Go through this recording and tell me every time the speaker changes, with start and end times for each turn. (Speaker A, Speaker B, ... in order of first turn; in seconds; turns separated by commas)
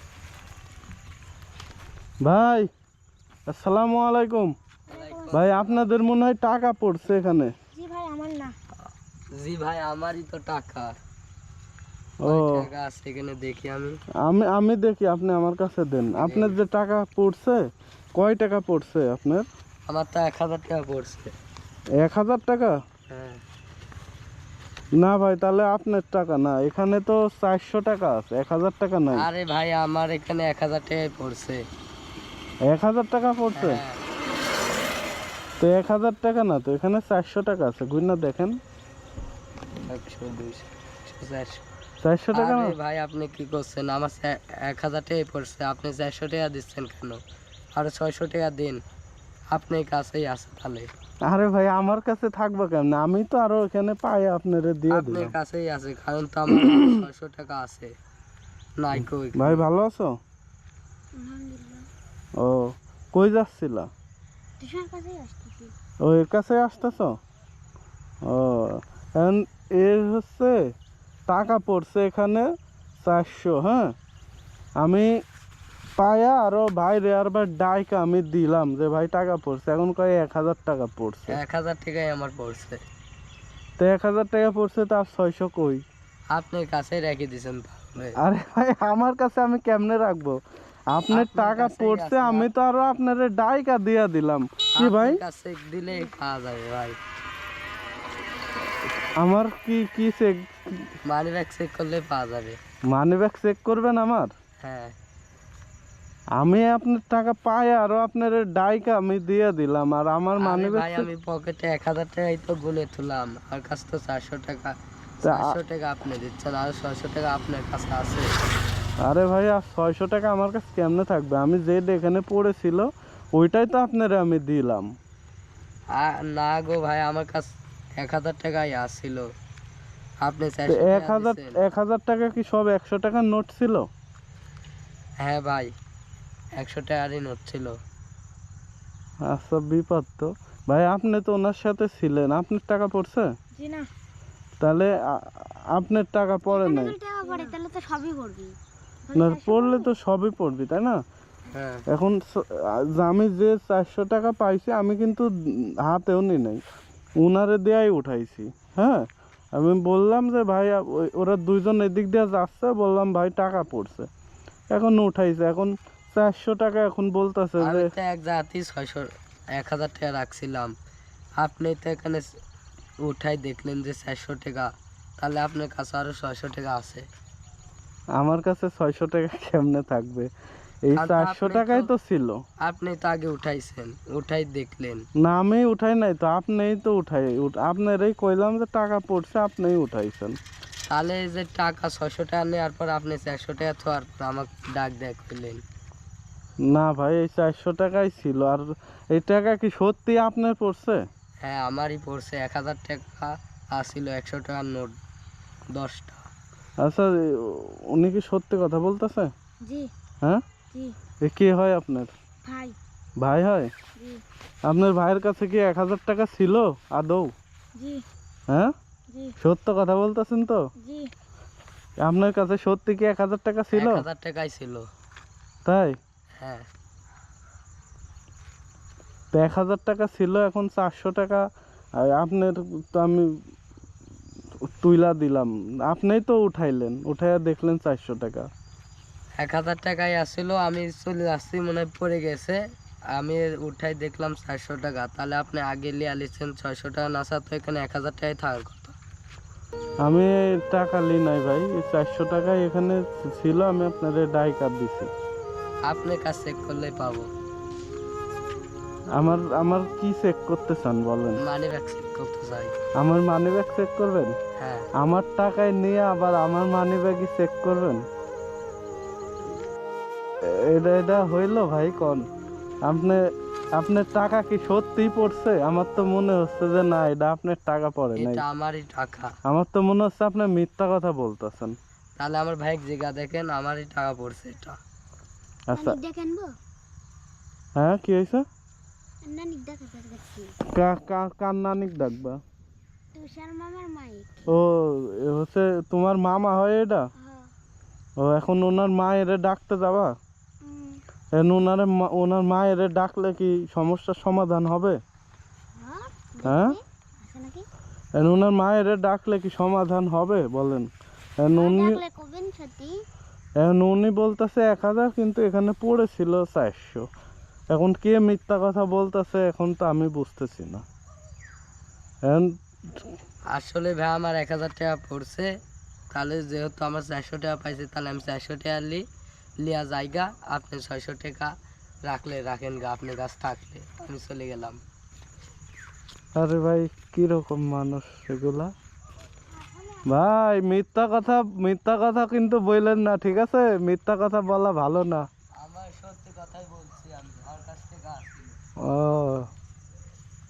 Speaker A: 2.2-2.7, Speaker A: 3.5-4.5, Speaker B: 4.9-5.8, Speaker C: 4.9-5.5, Speaker A: 5.3-7.5, Speaker C: 7.7-8.5, Speaker B: 9.3-10.9, Speaker A: 12.2-12.6, Speaker B: 12.2-14.0, Speaker A: 14.2-19.5, Speaker B: 16.2-16.6, Speaker B: 19.9-21.3, Speaker A: 22.0-22.8, Speaker B: 23.1-23.4, Speaker A: 25.0-29.2, Speaker B: 29.1-31.6, Speaker A: 32.7-33.8, Speaker B: 33.5-34.0, Speaker A: 35.6-38.6, Speaker B: 39.9-41.6, Speaker A: 42.0-42.7, Speaker B: 42.3-47.2, Speaker B: 47.7-48.8, Speaker B: 49.5-50.9, Speaker A: 51.2-55.3, Speaker B: 54.9-57.9, Speaker B: 58.8-59.6, Speaker A: 59.3-60.2, Speaker C: 61.1-61.9, Speaker A: 62.4-63.9, Speaker C: 64.6-65.7, Speaker A: 66.0-67.2, Speaker A: 68.2-70.6, Speaker A: 71.3-72.5, Speaker A: 73.0-73.9, Speaker A: 74.8-75.1, Speaker A: 76.0-81.3, Speaker B: 81.3-82.8, Speaker A: 83.8-85.8, Speaker B: 86.3-88.2, Speaker A: 88.2-90.4, Speaker A: 90.9-95.2, Speaker B: 91.1-92.5, Speaker B: 94.8-97.0, Speaker A: 99.2-100.5, Speaker B: 101.0-102.6, Speaker A: 102.9-104.3, Speaker B: 104.6-105.0, Speaker A: 106.4-111.1, Speaker B: 110.4-118.3, Speaker A: 115.2-115.6, Speaker A: 119.0-124.9, Speaker B: 125.9-129.3, Speaker B: 130.2-131.6, Speaker A: 130.7-133.9, Speaker B: 135.2-135.7, Speaker B: 136.6-137.8, Speaker A: 139.2-143.3, Speaker C: 143.5-143.9, Speaker A: 144.6-146.9, Speaker C: 146.5-148.6, Speaker C: 149.1-149.9, Speaker A: 149.1-151.0, Speaker B: 151.5-151.8, Speaker A: 151.9-155.3, Speaker A: 155.8-156.6, Speaker A: 157.2-164.1, Speaker A: 164.7-167.9, Speaker B: 167.6-170.7, Speaker B: 171.4-172.3, Speaker B: 173.0-177.1, Speaker A: 178.2-180.3, Speaker A: 180.8-182.4, Speaker B: 180.9-181.9, Speaker B: 182.6-185.1, Speaker A: 185.2-190.4, Speaker B: 190.9-195.6, Speaker A: 196.7-201.0, Speaker B: 201.4-205.0, Speaker B: 205.7-206.3, Speaker A: 206.8-209.3, Speaker C: 209.6-209.9, Speaker A: 211.2-212.1, Speaker C: 212.4-212.8, Speaker A: 213.2-213.7, Speaker C: 213.9-214.2, Speaker A: 214.7-217.3, Speaker C: 217.8-218.0, Speaker C: 219.1-219.3, Speaker A: 219.4-220.7, Speaker C: 220.8-221.1, Speaker A: 222.0-224.0, Speaker B: 223.7-224.9, Speaker A: 225.6-225.9, Speaker B: 226.4-226.7, Speaker A: 229.3-231.4, Speaker A: 232.0-233.3, Speaker A: 234.7-238.5, Speaker B: 239.4-242.6, Speaker B: 243.2-248.9, Speaker A: 250.0-255.1, Speaker B: 255.8-257.3, Speaker A: 259.2-261.4, Speaker B: 261.4-262.7, Speaker A: 263.0-264.3, Speaker B: 264.6-264.9, Speaker A: 265.0-268.0, Speaker A: 270.7-272.2, Speaker A: 272.8-273.2, Speaker A: 273.8-278.4, Speaker B: 278.1-279.3, Speaker A: 279.5-281.7, Speaker B: 282.2-284.8, Speaker A: 285.7-286.0, Speaker C: 285.7-286.5, Speaker A: 287.8-288.4, Speaker C: 289.2-290.6, Speaker A: 290.7-292.4, Speaker C: 293.1-294.4, Speaker A: 294.5-297.1, Speaker C: 297.2-297.5, Speaker A: 298.2-300.1, Speaker C: 300.6-301.0, Speaker A: 301.3-305.0, Speaker C: 305.8-307.7, Speaker A: 306.4-306.8, Speaker A: 308.1-310.9, Speaker A: 311.4-312.0, Speaker C: 311.6-313.0, Speaker A: 313.6-317.1, Speaker A: 317.7-320.8, Speaker B: 323.5-325.5, Speaker B: 326.1-329.1, Speaker B: 329.6-331.5, Speaker B: 332.0-334.8, Speaker A: 336.4-338.7, Speaker C: 339.6-340.0, Speaker A: 340.0-345.2, Speaker B: 345.6-348.6, Speaker A: 348.8-349.5